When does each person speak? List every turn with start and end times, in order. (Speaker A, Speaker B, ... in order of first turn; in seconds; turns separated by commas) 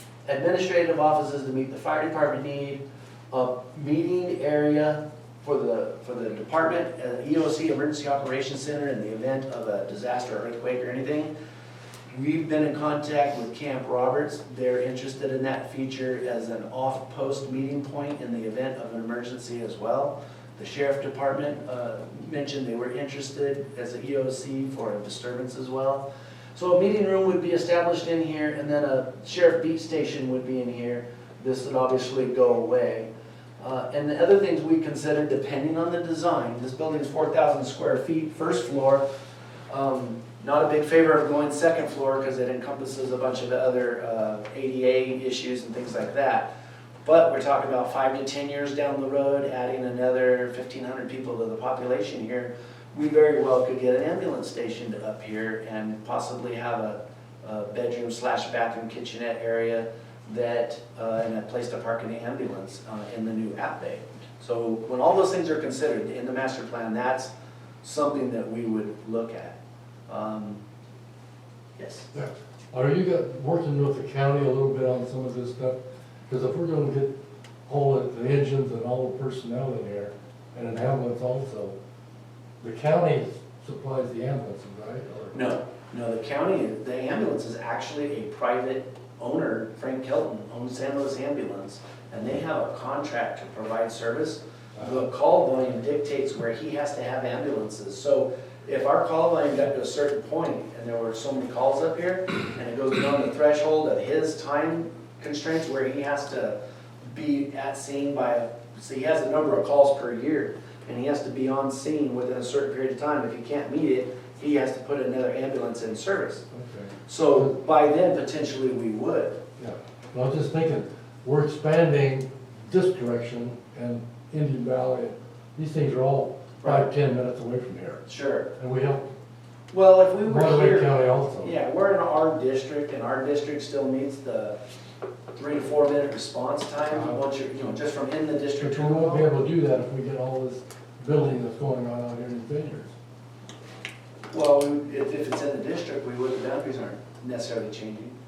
Speaker A: 0.3-11.3, Speaker A: 12.1-33.1, Speaker A: 33.6-39.0, Speaker A: 39.7-46.5, Speaker A: 47.0-67.3, Speaker A: 67.8-69.6, Speaker A: 70.1-70.6, Speaker A: 71.8-72.1, Speaker B: 72.1-77.1, Speaker B: 77.7-81.8, Speaker B: 82.6-85.4, Speaker A: 85.3-106.5, Speaker A: 107.1-116.5, Speaker B: 116.5-117.5, Speaker A: 117.1-119.4, Speaker B: 119.6-128.0, Speaker A: 128.1-128.5, Speaker B: 128.6-129.1, Speaker A: 129.7-134.6, Speaker B: 130.2-131.5, Speaker A: 135.3-139.3, Speaker B: 136.9-137.2, Speaker B: 138.6-142.9, Speaker A: 144.3-148.2